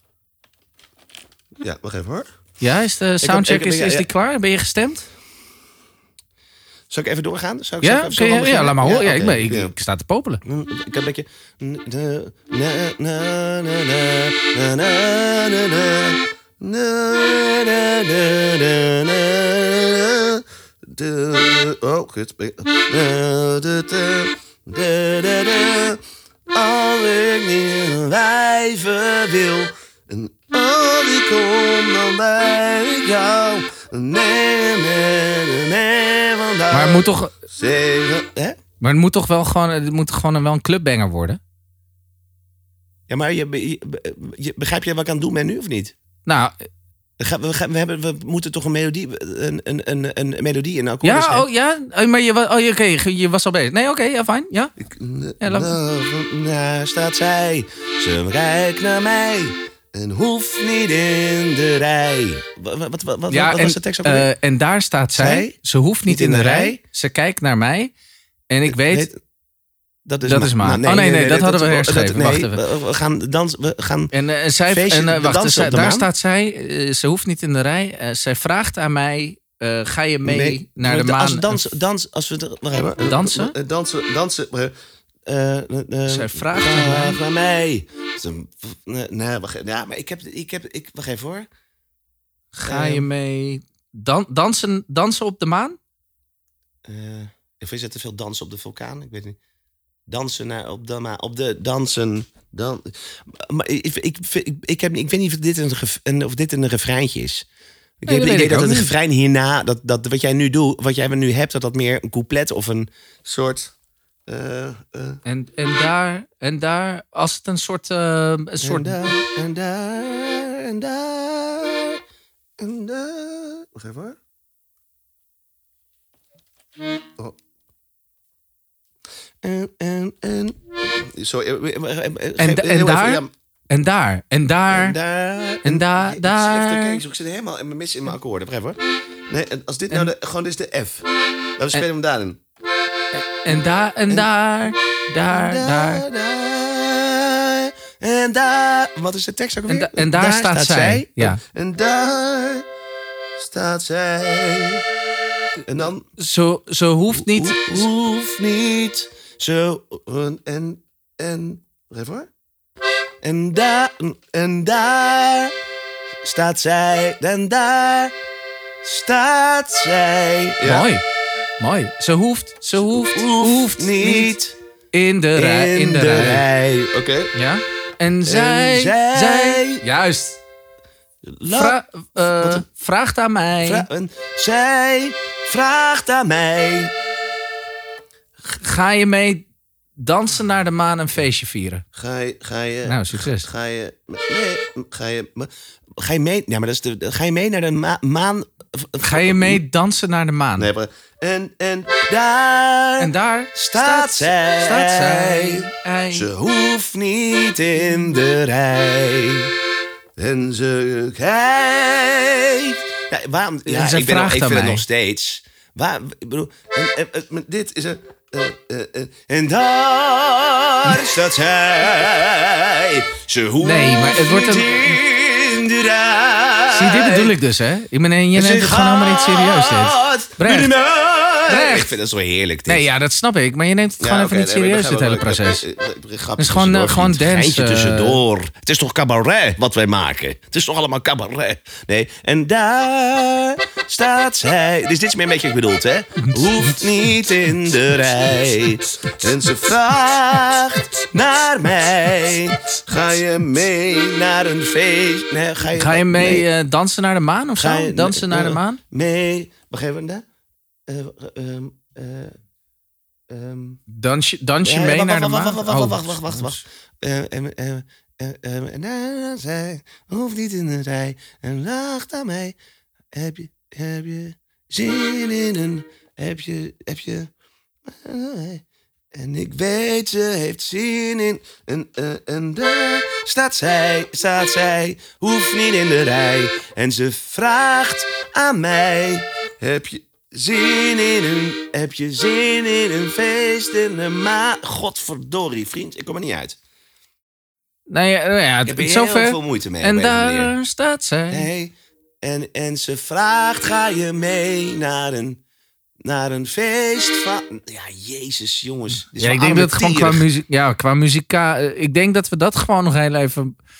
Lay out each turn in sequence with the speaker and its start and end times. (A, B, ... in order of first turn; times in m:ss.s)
0:01.6-0:02.3 A
0:02.6-0:05.0 B
0:03.2-0:04.1 A
0:06.9-0:09.7 A
0:07.8-0:10.4 B
0:10.4-0:38.6 A
0:36.7-0:37.3 B
0:38.8-0:41.4 B
0:43.1-0:45.9 A
0:46.2-0:46.6 B
0:47.2-0:51.4 A
0:51.0-0:54.7 B
0:54.8-1:04.3 A
0:55.4-0:55.8 B
1:03.3-1:07.9 B
1:05.2-1:05.6 A
1:06.1-1:06.8 A
1:08.5-1:09.1 B
1:08.7-1:09.2 A
1:10.0-1:14.1 A
1:10.2-1:12.6 B
1:14.1-1:21.6 B
1:14.7-1:16.1 A
1:20.2-1:24.7 A
1:23.0-1:23.6 B
1:25.2-1:31.5 A
1:26.1-1:27.2 B
1:32.5-1:35.8 B
1:32.6-1:33.1 A
1:36.8-1:39.4 A
1:40.1-1:47.4 A
1:48.0-1:53.7 A
1:48.1-1:48.9 B
1:54.3-1:55.2 A
1:55.2-1:59.1 B
1:58.6-2:02.0 A
2:02.6-2:04.2 A
2:09.4-2:13.3 A
2:12.4-2:15.0 B
2:14.7-2:21.0 A
2:15.6-2:17.0 B
2:21.6-2:22.4 A
2:23.1-2:26.0 B
2:25.3-2:32.6 A
2:29.7-2:31.4 B
2:33.4-2:34.8 A
2:35.6-2:36.1 A
2:36.2-2:37.9 B
2:37.1-2:42.3 A
2:43.2-2:45.5 A
2:46.2-2:48.1 A
2:48.8-2:50.9 A
2:50.6-2:51.0 B
2:51.6-2:54.3 B
2:52.8-2:54.6 A
2:54.9-2:56.4 B
2:55.4-2:57.3 A
2:57.3-3:00.4 B
2:58.2-2:59.8 A
3:01.2-3:02.6 A
3:01.5-3:03.8 B
3:03.6-3:06.9 A
3:08.5-3:09.4 B
3:10.0-3:11.8 B
3:11.9-3:19.6 A
3:12.8-3:13.5 B
3:19.0-3:20.7 B
3:20.6-3:29.5 A
3:23.0-3:26.3 B
3:30.2-3:47.4 A
3:33.6-3:34.8 B
3:43.6-3:45.0 B
3:46.7-3:50.7 B
3:48.3-3:52.9 A
3:51.5-3:51.9 B
3:52.7-3:55.6 B
3:54.0-4:16.5 A
3:56.4-3:58.2 B
4:15.8-4:18.8 B
4:17.6-4:20.2 A
4:20.9-4:22.3 A
4:23.3-4:23.8 A
4:23.9-4:26.6 B
4:24.6-4:32.5 A
4:33.1-4:37.3 A
4:37.8-4:38.6 A
4:39.1-4:56.6 A
4:57.9-5:01.5 B
4:58.6-5:00.5 A
5:01.3-5:05.4 A
5:06.0-5:10.2 A
5:09.2-5:13.5 B